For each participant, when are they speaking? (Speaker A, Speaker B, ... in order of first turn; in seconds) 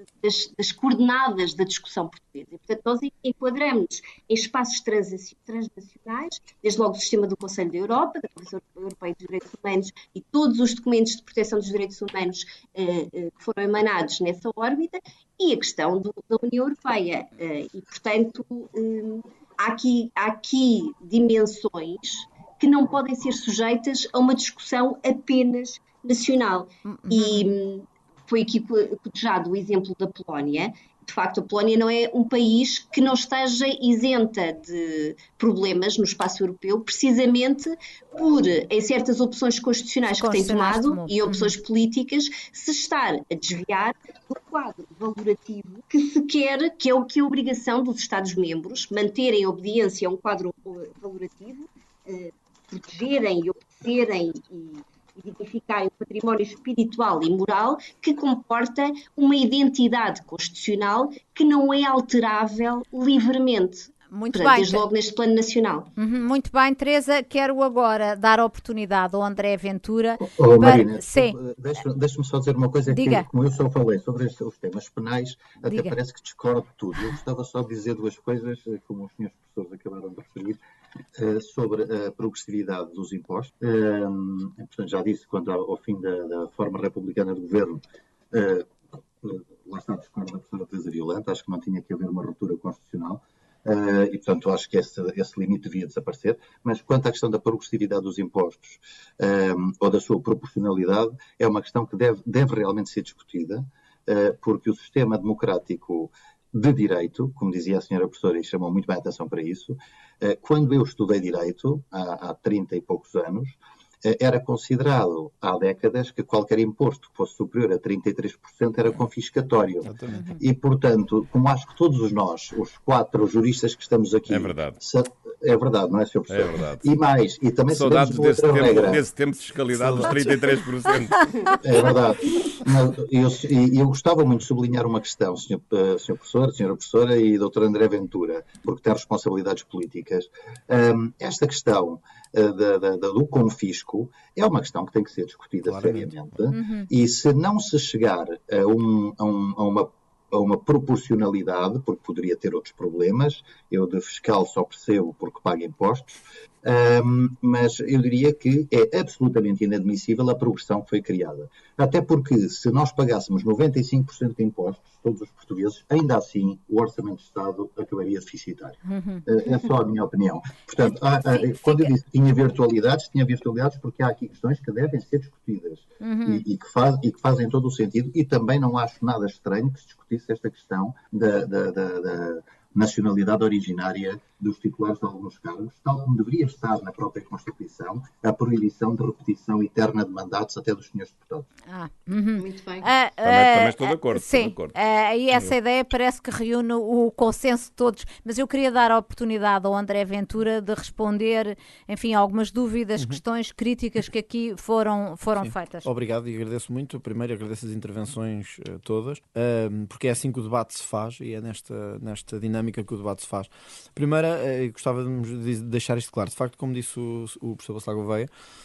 Speaker A: 0.2-65.9, 192.4-192.8
Speaker B: 26.9-27.5, 40.1-41.5, 64.1-64.8, 66.0-71.3, 72.9-73.2, 75.7-76.0, 120.1-120.4, 146.5-146.9, 168.9-169.2, 170.8-171.9, 176.0-176.4, 191.7-205.9
Speaker C: 70.2-80.6, 81.2-129.0, 131.6-191.5
Speaker D: 119.8-120.3, 129.7-130.3, 145.6-146.2, 202.9-203.2, 205.4-218.3
Speaker E: 124.3-124.8, 126.3-126.8, 127.7-131.6, 193.2-194.8